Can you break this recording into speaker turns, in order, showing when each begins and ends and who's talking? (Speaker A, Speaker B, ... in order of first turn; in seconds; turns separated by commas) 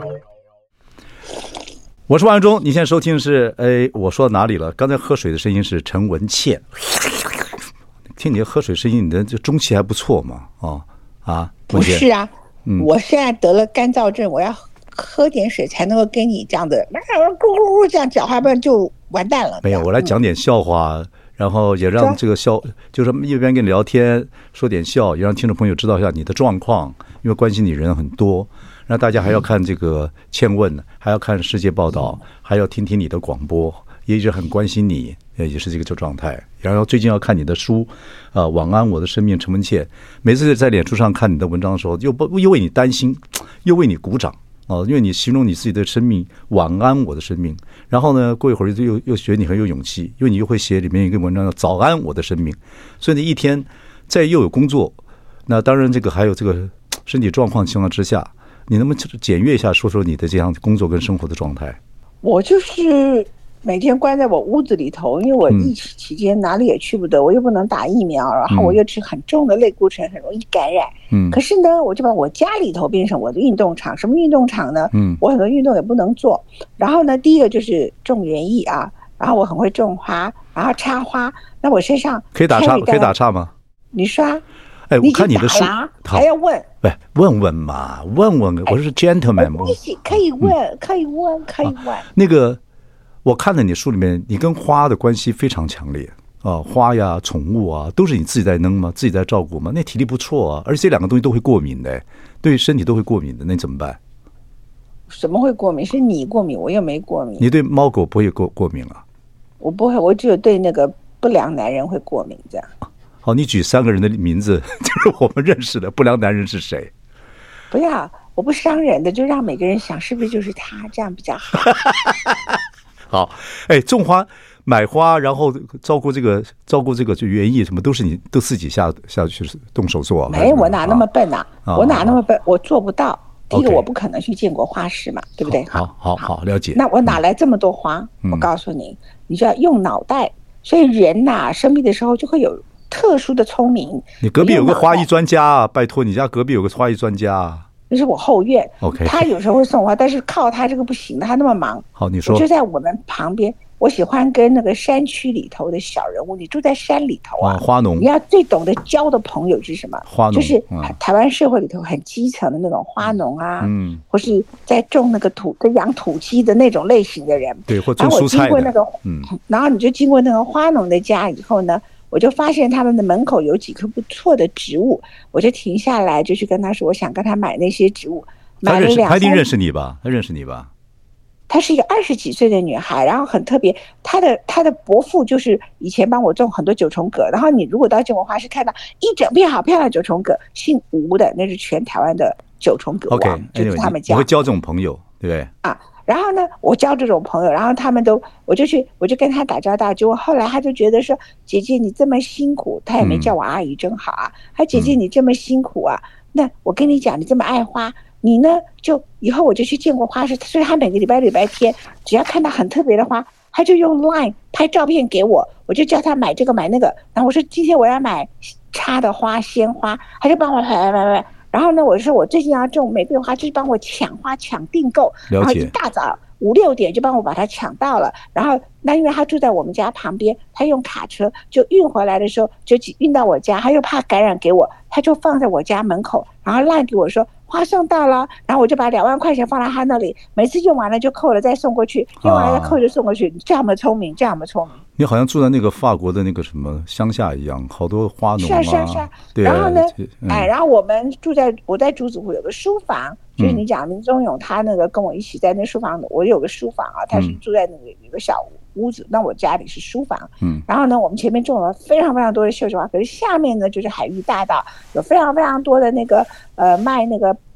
Speaker A: 2.1-7.5, Speaker A: 8.2-12.1, Speaker B: 11.7-20.2, Speaker A: 19.6-61.8, Speaker B: 62.2-83.2, Speaker A: 65.5-65.7, Speaker A: 68.5-68.8, Speaker A: 71.1-71.4, Speaker A: 74.9-75.2, Speaker A: 82.3-83.5, Speaker B: 83.9-84.4, Speaker A: 84.9-86.3, Speaker B: 85.0-86.7, Speaker A: 86.8-90.5, Speaker B: 89.4-92.1, Speaker A: 91.6-92.6, Speaker A: 93.2-104.0, Speaker B: 105.1-107.5, Speaker A: 107.4-109.0, Speaker B: 109.6-112.7, Speaker A: 113.2-116.9, Speaker B: 117.7-121.9, Speaker A: 121.7-131.1, Speaker B: 130.3-145.1, Speaker A: 131.7-132.2, Speaker A: 133.5-133.8, Speaker A: 135.4-137.2, Speaker A: 144.2-147.7, Speaker B: 147.9-179.5, Speaker A: 148.8-149.3, Speaker A: 152.0-152.5, Speaker A: 157.4-158.1, Speaker A: 160.1-160.9, Speaker A: 163.6-164.0, Speaker A: 167.7-169.3, Speaker A: 178.6-180.7, Speaker B: 181.5-194.3, Speaker A: 193.1-195.5, Speaker B: 195.6-244.8, Speaker A: 203.0-203.3, Speaker A: 225.3-225.7, Speaker A: 242.2-242.8, Speaker A: 245.0-250.5, Speaker B: 248.4-267.4